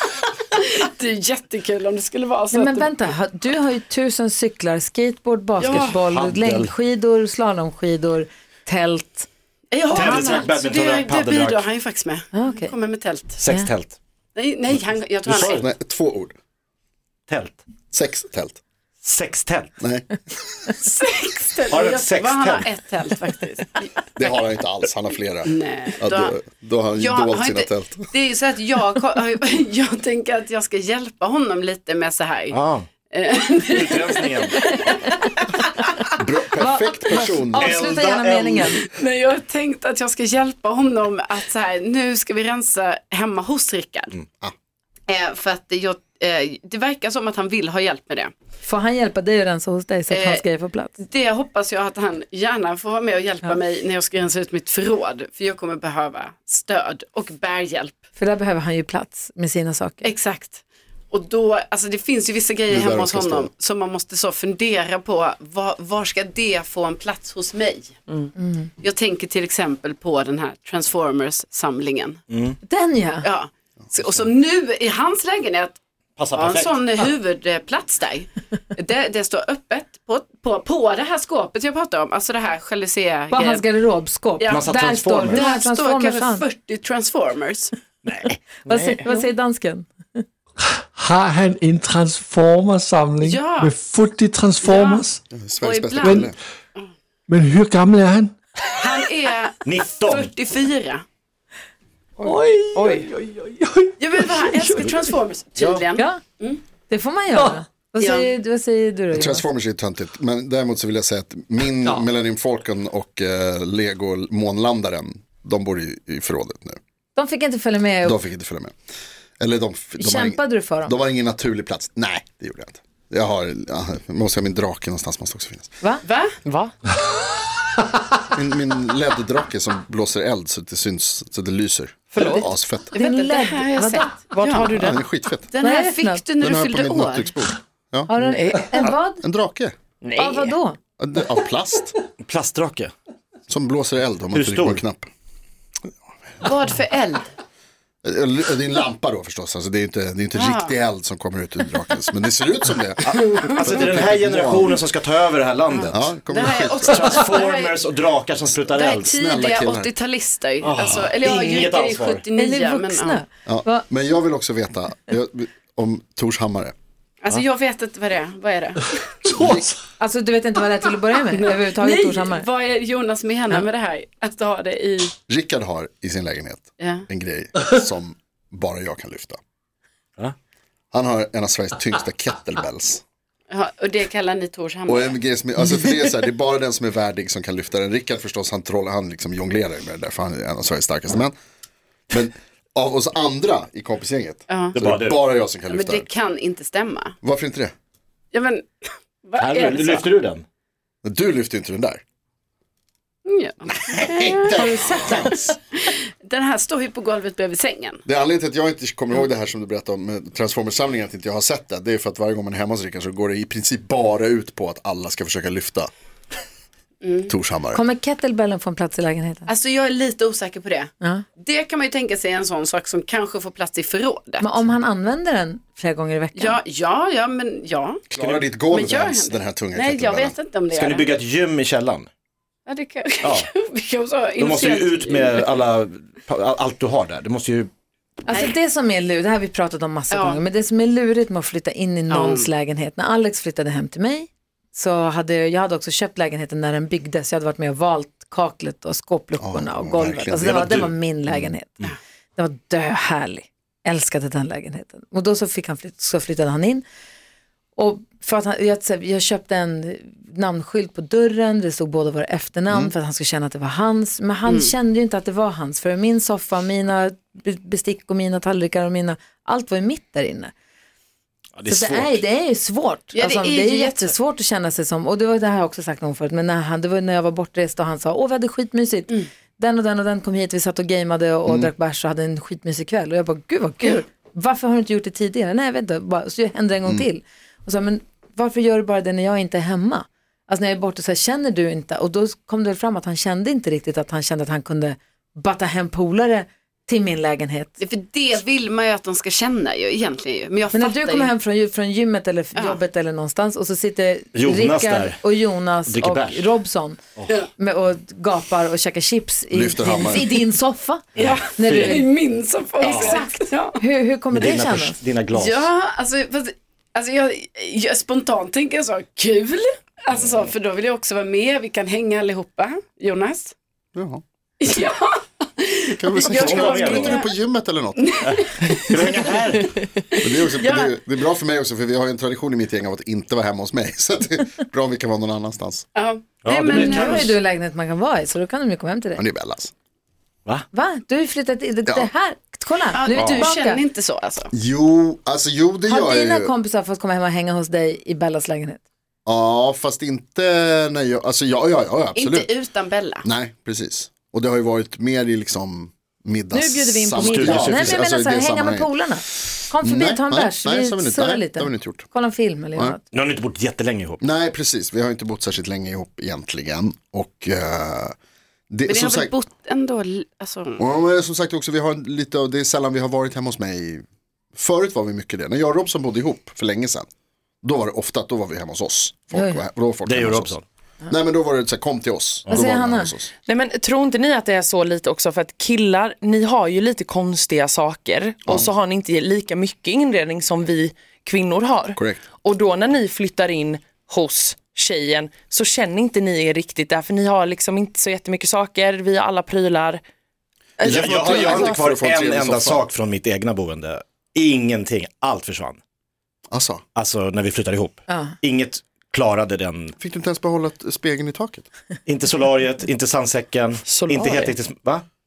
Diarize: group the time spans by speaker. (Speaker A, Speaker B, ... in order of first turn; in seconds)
Speaker A: 0.5-2.9, 5.6-6.0, 9.7-13.4, 14.3-15.7, 20.8-24.4, 25.4-26.4, 27.0-32.6, 33.1-35.5, 38.6-44.1, 45.1-48.3, 50.1-50.4, 51.0-58.0, 60.0-68.0, 68.8-72.2, 73.2-75.8, 76.3-83.6, 85.2-87.7, 93.2-93.7, 94.6-95.1, 95.6-96.9, 98.7-101.0, 104.0-106.6, 108.0-108.3, 126.0-126.4, 132.9-134.8, 135.5-137.3, 146.4-147.3, 150.3-150.8, 153.1-153.6, 155.7-157.8, 158.7-163.2, 167.2-169.3, 171.3-175.1, 176.8-177.1, 183.5-185.2, 194.5-194.8, 195.6-197.1, 198.3-200.1, 203.3-208.0, 217.0-217.3, 219.5-224.7, 226.3-228.0, 228.7-231.1, 232.7-235.6, 238.3-238.5, 240.1-240.4, 242.1-242.5, 264.5-264.7, 273.1-274.1, 297.8-301.3, 302.5-302.8, 311.1-313.8, 315.3-323.5, 324.6-327.3, 328.0-329.4, 330.1-330.9, 335.9-337.3, 342.9-344.5, 352.1-353.2, 368.9-370.8
Speaker B: 2.5-9.3, 10.0-10.3, 12.3-12.7, 13.5-13.7, 36.5-38.8, 48.6-50.9, 58.2-60.0, 68.3-68.7, 72.6-73.2, 83.3-86.4, 88.7-89.9, 106.9-109.5, 117.1-118.2, 120.0-120.9, 132.2-134.1, 135.6-136.2, 138.1-139.2, 140.2-140.8, 162.3-163.8, 170.0-172.4, 217.7-219.5, 224.4-226.6, 238.2-251.8, 252.3-256.8, 257.8-270.5, 271.7-297.8, 300.7-307.0, 307.6-312.1, 312.8-315.0, 336.6-339.2, 340.7-343.8, 345.9-348.8, 356.5-363.0, 379.3-379.6, 382.5-383.1, 408.1-408.4
Speaker C: 5.7-6.7, 9.9-11.6, 13.4-14.0, 15.2-15.6, 17.3-17.6, 19.0-19.7, 21.7-22.7, 32.5-32.9, 33.7-34.5, 37.6-38.7, 72.3-72.5, 76.2-76.8, 84.5-85.4, 88.0-88.3, 99.7-100.2, 142.2-142.9, 144.3-144.8, 153.5-156.0, 156.8-159.1, 160.6-162.2, 194.7-195.2, 199.4-200.4, 228.1-228.4, 230.7-232.1, 233.2-233.5, 234.4-237.7, 250.4-250.9, 271.6-272.2, 304.3-305.2, 305.9-306.4, 312.9-313.2, 314.3-315.7, 326.3-327.2, 328.9-329.7, 336.4-337.4, 357.2-358.0, 363.1-364.2, 380.1-380.6, 400.8-405.8, 406.9-409.9, 412.1-415.0
Speaker D: 15.4-16.3, 17.9-18.6, 19.8-20.7, 24.1-28.1, 36.2-37.8, 62.7-63.5, 95.3-96.3, 109.1-116.8, 118.0-118.7, 119.4-125.7, 128.2-132.9, 134.7-135.5, 136.4-138.1, 138.8-139.7, 141.0-141.9, 143.5-145.1, 148.0-154.8, 155.9-157.0, 159.0-159.9, 163.5-166.7, 169.4-169.7, 175.3-179.4, 180.9-183.0, 184.9-191.3, 192.1-196.1, 197.2-197.7, 201.0-202.0, 204.0-205.6, 208.0-215.9, 217.3-217.8, 228.1-230.3, 249.4-251.5, 309.5-310.4, 323.9-324.2, 326.0-328.2, 330.2-335.9, 339.2-339.7, 344.5-346.5, 349.2-352.5, 353.2-358.9, 359.8-362.1, 364.2-368.1, 368.7-369.3, 370.8-374.0, 374.5-377.1, 377.6-380.5, 381.1-383.3, 391.9-392.2, 400.8-402.9, 406.5-406.8, 410.0-411.6
Speaker E: 88.7-89.2, 102.2-103.4, 126.4-126.7, 132.1-132.4, 134.2-135.0, 138.3-138.6, 140.0-140.6, 383.4-400.0, 400.8-401.7, 413.8-414.6
Speaker F: 90.9-95.2, 97.3-98.3